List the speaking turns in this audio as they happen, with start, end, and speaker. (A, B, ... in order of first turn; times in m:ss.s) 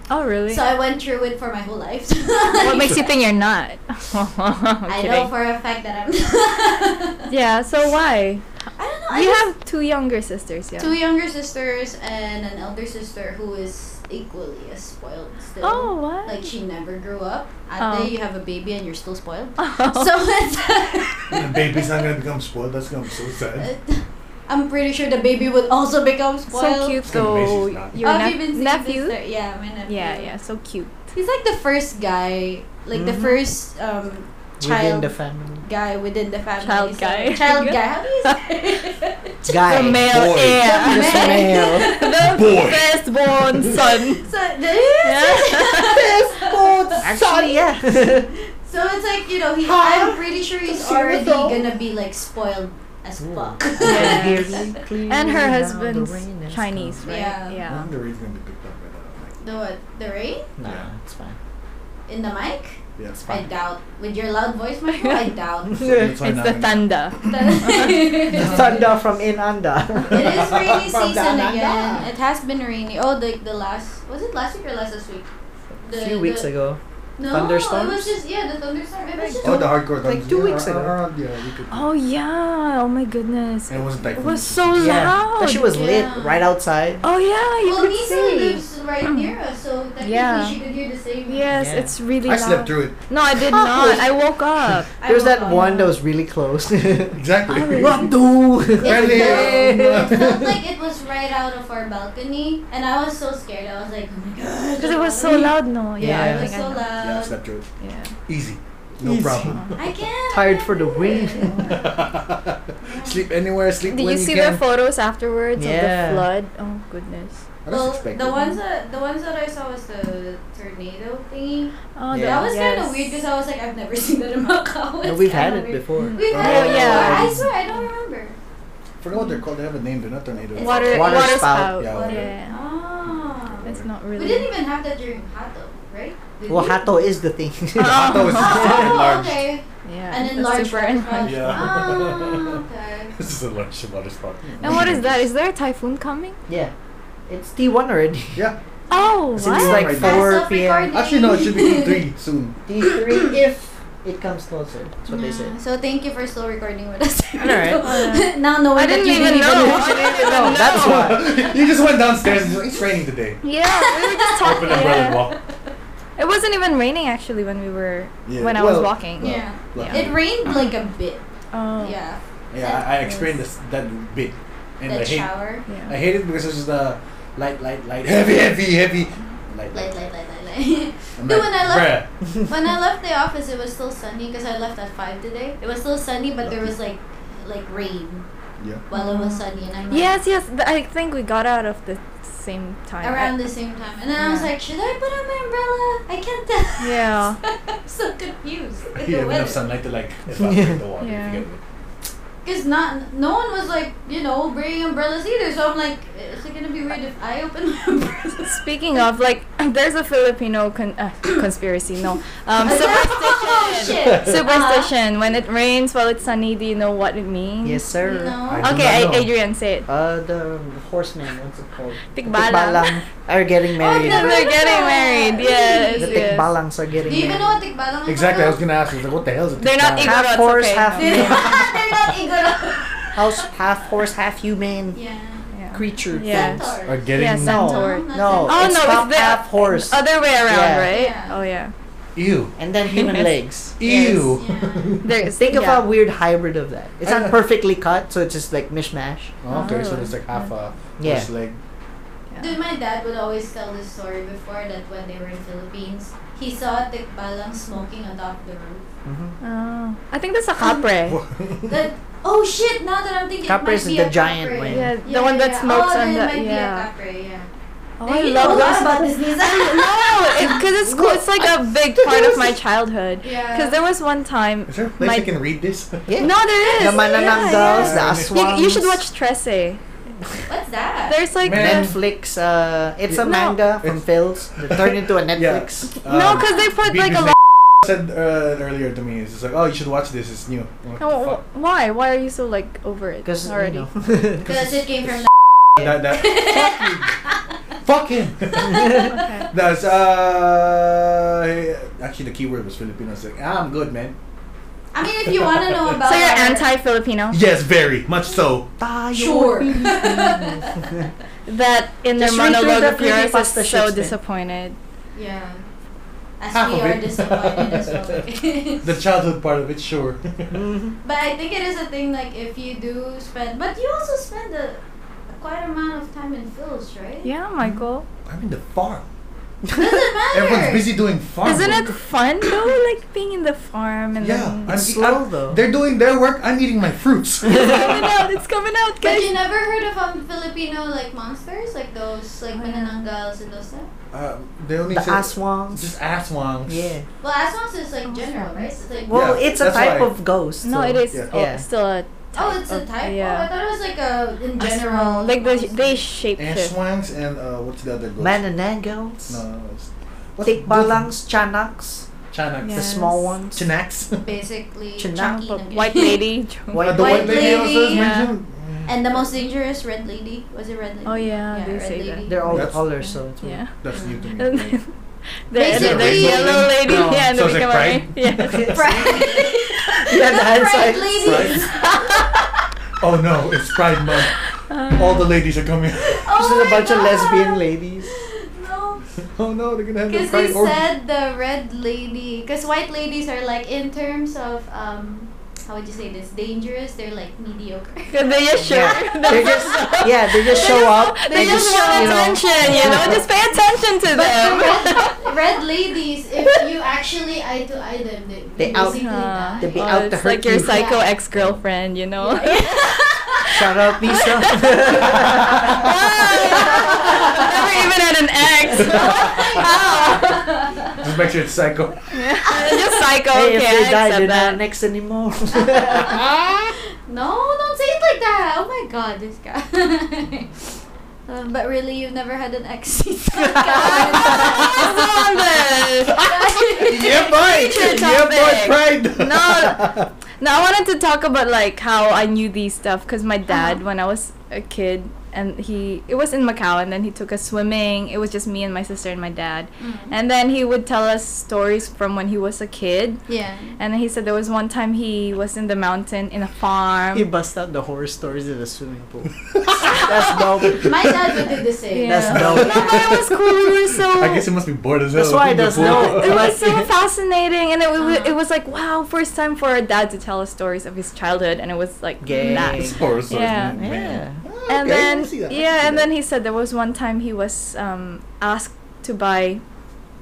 0:00.1-0:00.6 A
0:00.5-0:03.1 B
0:02.5-0:05.3 A
0:04.9-0:07.3 B
0:07.3-0:08.4 A
0:08.8-0:09.5 B
0:09.1-0:11.0 A
0:10.8-0:22.0 B
0:15.6-0:16.5 A
0:17.8-0:18.1 A
0:19.6-0:20.1 A
0:21.3-0:23.7 C
0:23.5-0:27.0 B
0:26.5-0:29.2 A
0:27.1-0:28.0 C
0:28.0-0:30.3 B
0:29.8-0:30.9 A
0:31.1-0:39.8 B
0:32.9-0:33.4 D
0:34.6-0:35.6 D
0:36.6-0:38.4 A
0:39.4-0:41.9 D
0:39.6-0:44.3 A
0:39.9-0:40.8 C
0:40.6-0:42.4 B
0:42.2-0:43.0 C
0:43.8-0:47.0 B
0:45.0-0:46.0 A
0:45.9-0:48.3 D
0:47.0-0:47.6 A
0:48.3-0:54.8 B
0:49.6-0:50.2 D
0:50.7-0:51.6 D
0:53.2-0:57.0 D
0:53.8-0:57.9 A
0:57.0-0:57.6 B
0:57.7-0:59.4 C
0:59.4-1:00.5 B
1:00.6-1:01.4 D
1:02.1-1:05.8 B
1:03.0-1:03.5 C
1:05.7-1:07.4 C
1:05.8-1:06.1 D
1:06.2-1:08.2 A
1:07.2-1:08.8 B
1:08.3-1:08.8 C
1:08.3-1:12.0 D
1:10.1-1:10.9 C
1:10.1-1:15.3 B
1:15.8-1:16.5 B
1:15.9-1:18.1 D
1:17.2-1:19.8 B
1:19.1-1:19.5 A
1:19.4-1:21.9 C
1:19.9-1:20.9 D
1:21.7-1:25.7 A
1:23.7-1:25.2 C
1:24.8-1:27.0 D
1:25.6-1:26.5 B
1:27.0-1:29.3 A
1:27.6-1:31.5 B
1:30.0-1:30.6 A
1:31.3-1:34.9 A
1:31.5-1:31.9 D
1:32.2-1:33.0 C
1:33.5-1:34.1 D
1:35.0-1:35.9 B
1:35.0-1:40.3 D
1:35.5-1:35.9 A
1:37.1-1:38.1 C
1:37.5-1:38.1 A
1:38.7-1:40.6 C
1:38.8-1:47.4 B
1:44.8-1:46.9 A
1:46.0-1:46.5 D
1:47.0-1:47.6 C
1:47.8-1:48.1 A
1:48.3-1:49.8 C
1:49.0-1:49.7 D
1:49.5-1:49.8 A
1:49.8-1:51.7 B
1:50.3-1:51.7 D
1:51.4-1:54.6 C
1:51.5-1:51.8 A
1:52.8-1:53.2 B
1:53.9-1:57.4 A
1:55.6-1:56.3 D
1:57.6-1:58.5 C
1:57.7-2:08.4 B
2:02.0-2:03.1 A
2:02.1-2:02.5 D
2:05.0-2:07.5 D
2:06.0-2:07.8 A
2:06.3-2:07.4 C
2:09.0-2:12.3 C
2:09.1-2:09.4 A
2:10.5-2:11.2 B
2:10.6-2:12.6 A
2:10.7-2:11.8 D
2:11.9-2:17.0 B
2:13.5-2:13.8 C
2:13.6-2:14.5 A
2:16.5-2:18.3 D
2:17.8-2:18.9 A
2:17.8-2:19.4 C
2:18.3-2:23.1 B
2:19.8-2:21.8 A
2:21.2-2:22.6 C
2:23.2-2:25.3 C
2:24.6-2:26.4 A
2:27.3-2:28.4 D
2:28.9-2:30.0 A
2:29.4-2:30.9 D
2:29.4-2:32.6 C
2:30.0-2:32.0 B
2:32.6-2:35.5 D
2:32.9-2:33.3 B
2:35.1-2:40.5 B
2:37.4-2:37.8 D
2:37.8-2:41.2 A
2:39.2-2:41.3 D
2:40.5-2:43.4 C
2:43.4-2:45.3 A
2:43.6-2:45.7 B
2:44.4-2:45.4 C
2:46.2-2:50.1 A
2:48.2-2:50.2 C
2:49.2-2:51.2 B
2:51.5-2:52.0 A
2:51.8-2:52.9 B
2:52.5-2:59.9 C
2:53.0-2:53.4 A
2:54.8-2:55.6 B
2:55.7-2:55.9 A
2:59.7-3:08.2 B
3:01.2-3:02.1 C
3:06.4-3:06.7 C
3:08.9-3:10.2 B
3:08.9-3:13.4 A
3:13.0-3:19.6 B
3:14.2-3:14.5 A
3:16.8-3:17.4 A
3:19.0-3:21.6 C
3:20.4-3:20.8 D
3:21.0-3:21.4 A
3:22.4-3:29.0 B
3:28.4-3:37.9 A
3:32.6-3:34.9 B
3:34.0-3:34.4 C
3:37.6-3:38.4 D
3:38.0-3:38.8 B
3:38.4-3:39.3 C
3:38.6-3:39.9 A
3:39.9-3:44.4 D
3:42.1-3:43.0 A
3:43.8-3:46.4 B
3:43.8-3:46.5 A
3:46.0-3:47.6 D
3:47.0-3:48.6 B
3:48.1-3:50.3 C
3:49.6-3:51.5 A
3:50.0-3:51.7 D
3:50.9-3:53.4 B
3:53.1-3:55.0 D
3:54.9-3:55.5 B
3:55.5-4:01.7 A
3:55.7-3:56.8 D
3:56.0-3:58.9 B
3:56.8-3:57.7 C
3:57.3-4:00.9 D
4:00.9-4:01.4 B
4:02.1-4:02.6 C
4:02.6-4:04.3 D
4:02.8-4:03.4 A
4:03.8-4:05.1 C
4:03.9-4:04.2 A
4:04.3-4:05.0 B
4:05.0-4:05.9 A
4:05.3-4:09.4 D
4:07.0-4:07.4 C
4:09.4-4:11.6 C
4:09.5-4:10.5 A
4:11.0-4:11.3 D
4:12.3-4:12.6 A
4:12.4-4:18.8 B
4:19.0-4:19.4 D
4:19.4-4:21.2 A
4:20.6-4:20.8 B
4:21.0-4:21.8 C
4:21.6-4:27.5 B
4:23.4-4:24.9 D
4:24.7-4:26.9 A
4:28.0-4:35.3 A
4:28.0-4:30.7 B
4:32.0-4:32.5 C
4:33.2-4:33.8 B
4:34.7-4:36.2 C
4:36.1-4:39.0 D
4:36.2-4:39.8 A
4:36.6-4:37.4 B
4:37.3-4:38.3 C
4:40.5-4:41.2 B
4:41.1-4:41.9 A
4:41.4-4:42.0 C
4:41.4-4:45.9 D
4:43.1-4:51.4 C
4:43.2-4:43.6 A
4:46.0-4:47.4 A
4:51.0-4:53.9 A
4:53.2-4:54.6 D
4:54.4-4:55.2 B
4:55.8-4:57.2 C
4:56.1-4:57.4 B
4:57.7-5:04.2 C
4:58.6-4:59.1 B
4:58.7-4:59.0 D
4:58.9-4:59.5 A
5:04.9-5:06.7 B
5:05.2-5:06.0 C
5:06.0-5:07.4 A
5:07.3-5:08.7 C
5:08.8-5:11.0 D
5:09.1-5:11.0 B
5:11.5-5:14.8 A
5:12.2-5:14.1 D
5:15.1-5:15.6 B
5:16.4-5:18.9 B
5:16.5-5:18.2 C
5:18.8-5:20.6 C
5:20.5-5:21.0 D
5:21.0-5:27.3 B
5:27.2-5:28.0 A
5:28.2-5:29.1 C
5:29.7-5:30.9 B
5:30.3-5:32.0 C
5:31.4-5:34.7 A
5:34.2-5:38.0 C
5:34.7-5:35.6 D
5:37.5-5:39.3 A
5:39.0-5:43.9 B
5:42.5-5:43.0 A
5:44.1-5:46.9 C
5:44.9-5:45.9 D
5:46.7-5:47.0 D
5:47.2-5:49.5 B
5:48.1-5:48.7 A
5:49.1-5:51.6 D
5:49.1-5:50.1 C
5:50.6-5:53.5 A
5:52.3-5:56.0 B
5:54.6-5:56.7 A
5:56.4-5:58.4 C
5:58.2-5:59.4 D
5:59.3-6:01.1 C
6:00.4-6:02.1 D
6:02.3-6:04.2 C
6:02.6-6:03.3 A
6:02.7-6:03.6 D
6:04.2-6:06.2 B
6:05.0-6:05.4 D
6:05.1-6:08.3 A
6:06.7-6:07.8 D
6:06.7-6:09.2 C
6:06.9-6:08.2 B
6:08.8-6:12.5 B
6:11.0-6:13.7 A
6:12.3-6:13.6 D
6:12.5-6:12.8 C
6:13.8-6:14.8 C
6:13.9-6:14.2 B
6:14.4-6:14.9 A
6:15.5-6:18.9 A
6:15.5-6:16.7 B
6:15.6-6:19.2 C
6:16.8-6:17.3 D
6:18.5-6:19.2 D
6:18.7-6:22.5 B
6:20.0-6:21.6 D
6:21.2-6:21.7 C
6:21.8-6:22.4 A
6:23.0-6:24.4 C
6:24.7-6:25.3 A
6:24.9-6:26.3 C
6:26.1-6:29.0 B
6:26.3-6:28.1 D
6:29.4-6:30.8 C
6:30.1-6:38.5 B
6:38.1-6:45.2 A
6:38.6-6:43.2 D
6:39.3-6:43.2 B
6:44.1-6:49.9 B
6:48.6-6:50.9 D
6:48.8-6:53.5 A
6:50.7-6:51.1 B
6:51.3-6:51.6 C
6:52.2-6:53.5 B
6:53.5-6:55.9 D
6:54.0-7:00.5 A
6:55.1-6:55.9 C
6:56.2-6:57.5 B
6:58.8-6:59.6 C
6:58.8-7:01.0 B
7:00.9-7:02.1 C
7:02.1-7:04.6 A
7:02.5-7:02.9 B
7:03.3-7:06.2 D
7:05.6-7:06.2 B
7:06.2-7:06.7 C
7:07.0-7:10.6 B
7:11.2-7:15.2 B
7:13.6-7:16.3 A
7:14.4-7:14.8 C
7:16.1-7:20.1 C
7:16.2-7:18.1 B
7:17.4-7:33.2 A
7:23.5-7:23.8 B
7:29.8-7:30.1 B
7:33.3-7:33.8 B
7:33.8-7:37.3 A
7:37.1-7:40.9 D
7:39.5-7:41.5 C
7:40.1-7:43.3 B
7:41.9-7:44.5 A
7:42.0-7:43.0 D
7:42.3-7:46.6 C
7:45.1-7:46.9 D
7:45.8-7:53.8 A
7:48.0-7:48.3 B
7:52.2-7:53.1 D
7:52.3-7:52.8 B
7:52.8-7:56.1 C
7:53.8-7:54.4 D
7:54.7-7:59.6 A